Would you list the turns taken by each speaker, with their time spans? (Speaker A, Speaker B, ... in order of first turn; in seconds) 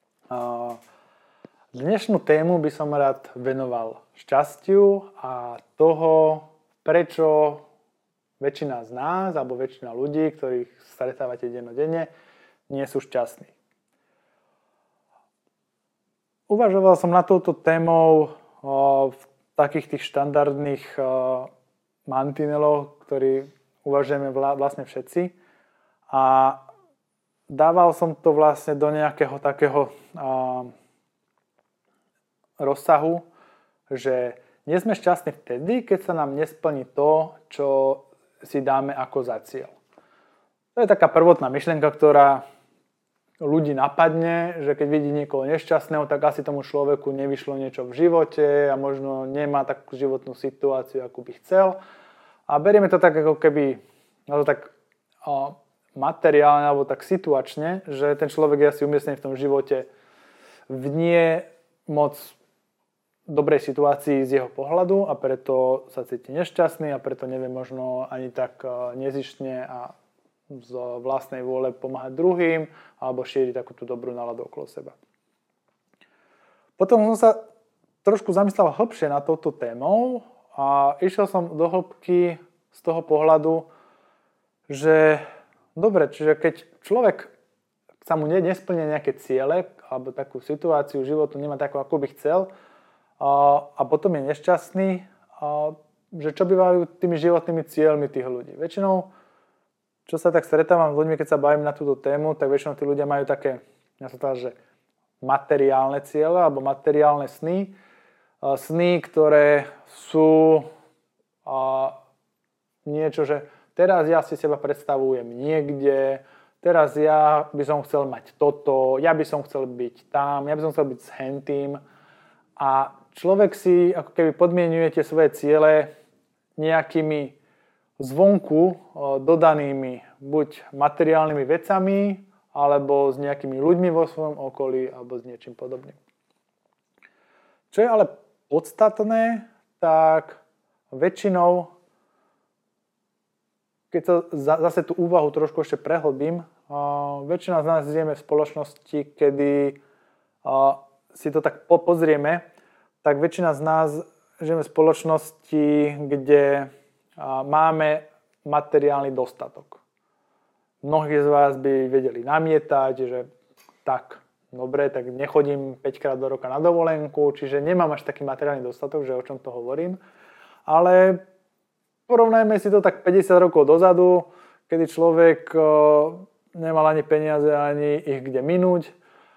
Speaker A: 0.3-0.8, 1.7-7.6, 8.4-12.1, 12.7-13.5, 16.5-21.5, 22.1-25.3, 26.1-26.6, 27.5-30.7, 32.6-33.2, 33.9-39.7, 40.7-42.4, 43.4-51.8, 52.5-54.7, 55.2-59.9, 60.7-62.4, 63.3-69.9, 70.5-75.0, 76.8-77.4, 78.0-83.7, 84.7-85.2, 85.7-87.3, 88.0-92.5, 93.2-99.1, 100.0-104.5, 105.2-107.8, 108.4-110.7, 111.5-112.0, 112.8-121.8, 122.6-125.9, 126.6-127.3, 128.0-136.0, 137.7-141.7, 143.9-149.8, 150.4-152.4, 153.0-159.8, 160.8-163.3, 163.8-170.0, 170.7-171.2, 172.1-178.9